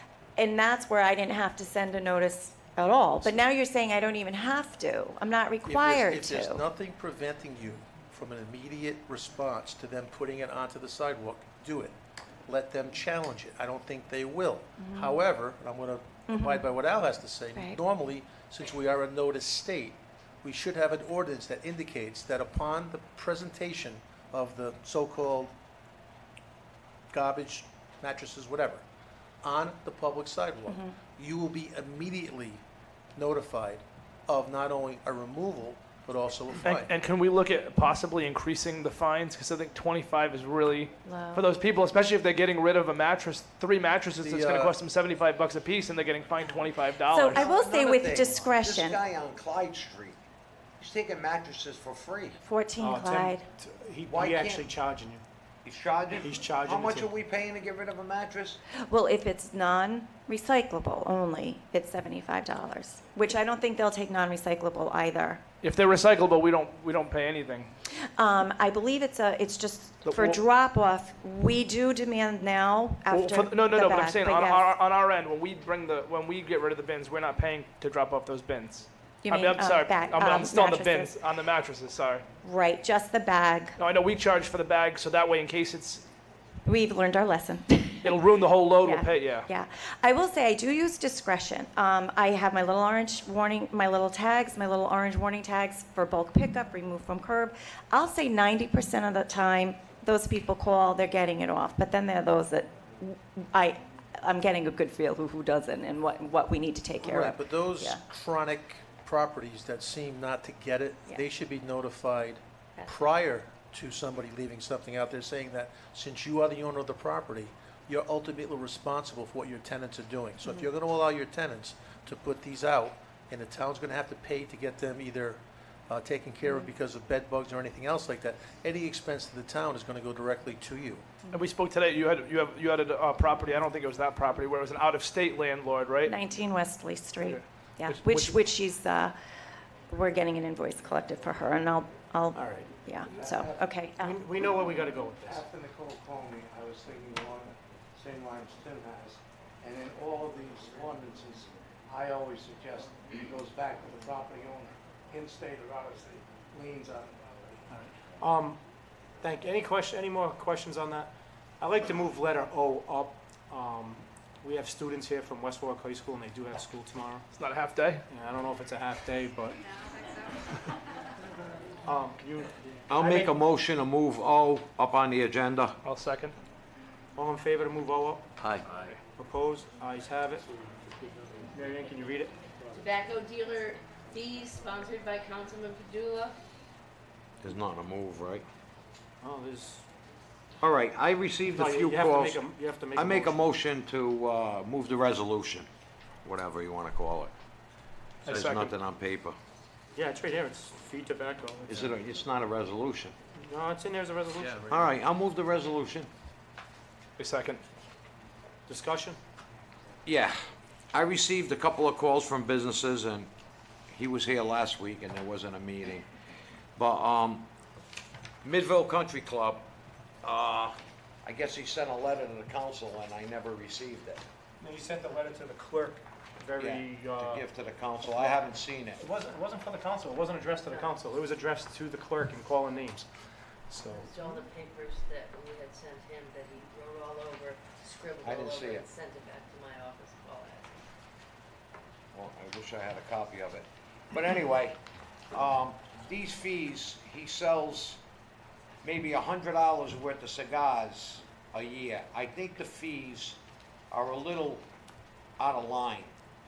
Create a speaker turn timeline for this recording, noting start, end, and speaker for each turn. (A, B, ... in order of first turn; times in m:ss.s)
0:00.4-0:06.6 A
0:05.6-0:11.9 B
0:12.4-0:25.5 B
0:14.8-0:15.2 A
0:16.3-0:16.7 A
0:27.1-0:28.8 B
0:29.4-0:32.6 B
0:30.7-0:30.9 A
0:33.2-0:36.9 B
0:36.6-0:47.4 C
0:41.0-0:41.4 A
0:44.2-0:44.7 B
0:47.1-0:49.0 A
0:47.3-0:50.2 D
0:50.8-0:52.4 D
0:52.4-0:53.4 A
0:52.8-0:55.2 E
0:54.0-0:54.6 D
0:55.6-0:58.6 D
0:56.1-0:57.1 E
0:58.9-1:05.4 A
1:05.6-1:07.7 C
1:08.2-1:14.7 A
1:10.0-1:10.4 C
1:13.1-1:22.2 C
1:19.2-1:21.2 A
1:22.4-1:23.8 A
1:23.8-1:26.0 C
1:26.6-1:28.2 A
1:28.0-1:29.5 C
1:28.8-1:48.0 A
1:47.0-2:11.0 B
2:06.4-2:06.7 A
2:11.3-2:16.1 C
2:16.0-2:19.1 A
2:17.2-2:18.3 C
2:19.9-2:24.2 A
2:22.3-2:22.7 E
2:23.1-2:23.6 F
2:24.0-2:25.4 E
2:25.3-2:37.3 F
2:37.7-2:38.6 E
2:39.2-2:47.2 E
2:47.3-2:48.0 C
2:48.1-2:49.6 E
2:51.8-2:53.3 E
2:52.9-2:55.8 D
2:55.8-2:56.4 C
2:57.2-2:58.3 E
2:58.6-2:59.0 C
2:59.1-3:02.4 E
3:02.7-3:06.4 G
3:07.4-3:08.4 D
3:09.2-3:09.8 E
3:10.6-3:12.4 D
3:11.5-3:13.4 E
3:12.9-3:15.7 D
3:16.2-3:17.3 D
3:18.2-3:18.7 C
3:18.2-3:19.4 D
3:19.9-3:22.0 E
3:21.7-3:23.1 D
3:23.4-3:24.8 E
3:24.6-3:26.1 D
3:27.2-3:27.6 C
3:28.7-3:29.2 E
3:30.0-3:30.4 D
3:30.9-3:33.3 D
3:33.9-3:36.1 D
3:36.8-3:37.5 D
3:38.4-3:39.7 D
3:40.2-3:44.2 D
3:44.6-3:47.5 E
3:46.6-3:49.0 D
3:48.0-3:53.1 E
3:50.5-3:51.0 G
3:53.7-3:54.1 E
3:53.9-4:00.8 G
3:58.2-3:58.9 D
4:02.1-4:04.8 D
4:05.3-4:08.0 D
4:08.8-4:13.4 D
4:13.9-4:14.6 D
4:15.4-4:16.1 D